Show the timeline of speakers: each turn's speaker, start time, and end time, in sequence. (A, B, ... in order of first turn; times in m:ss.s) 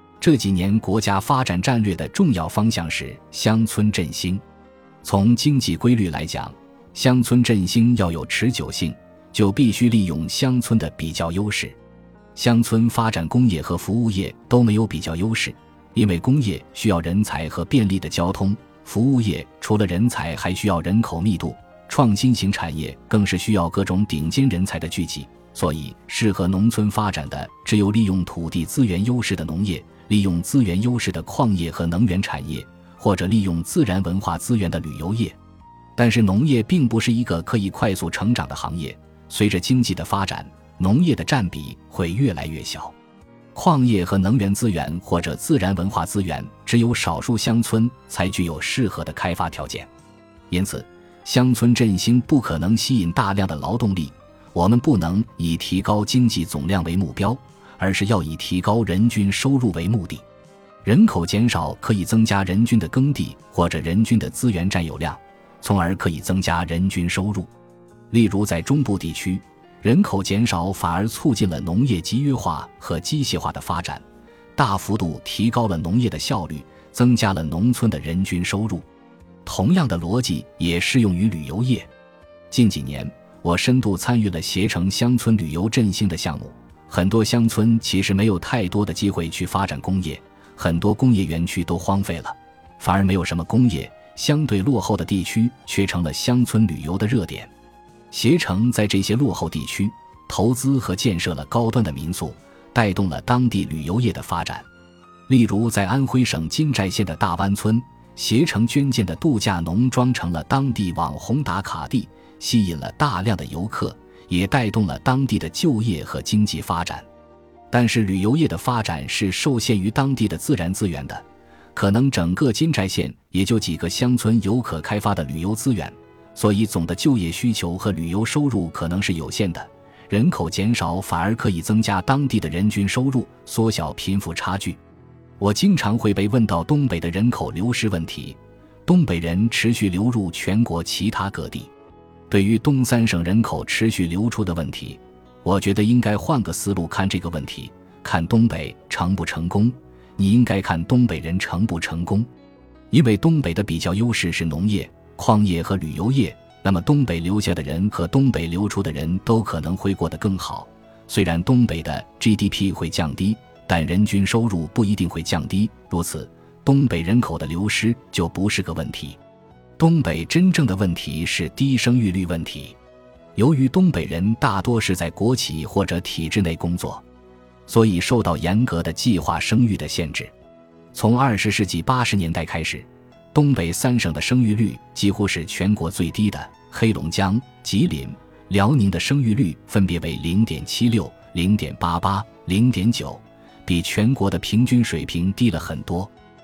0:00.2-0:04.4 A
0:05.0-0:11.8 A
0:12.3-0:35.4 A
0:36.0-0:42.9 A
0:43.5-0:49.9 A
0:50.5-1:00.2 A
1:00.8-1:07.5 A
1:08.1-1:14.0 A
1:14.6-1:18.8 A
1:19.4-1:21.9 A
1:22.5-1:37.5 A
1:38.1-1:44.6 A
1:45.3-1:57.1 A
1:57.7-2:14.8 A
2:15.4-2:21.7 A
2:22.3-2:32.3 A
2:32.9-2:49.2 A
2:49.8-2:52.8 A
2:53.4-2:57.0 A
2:57.7-3:00.3 A
3:00.9-3:16.1 A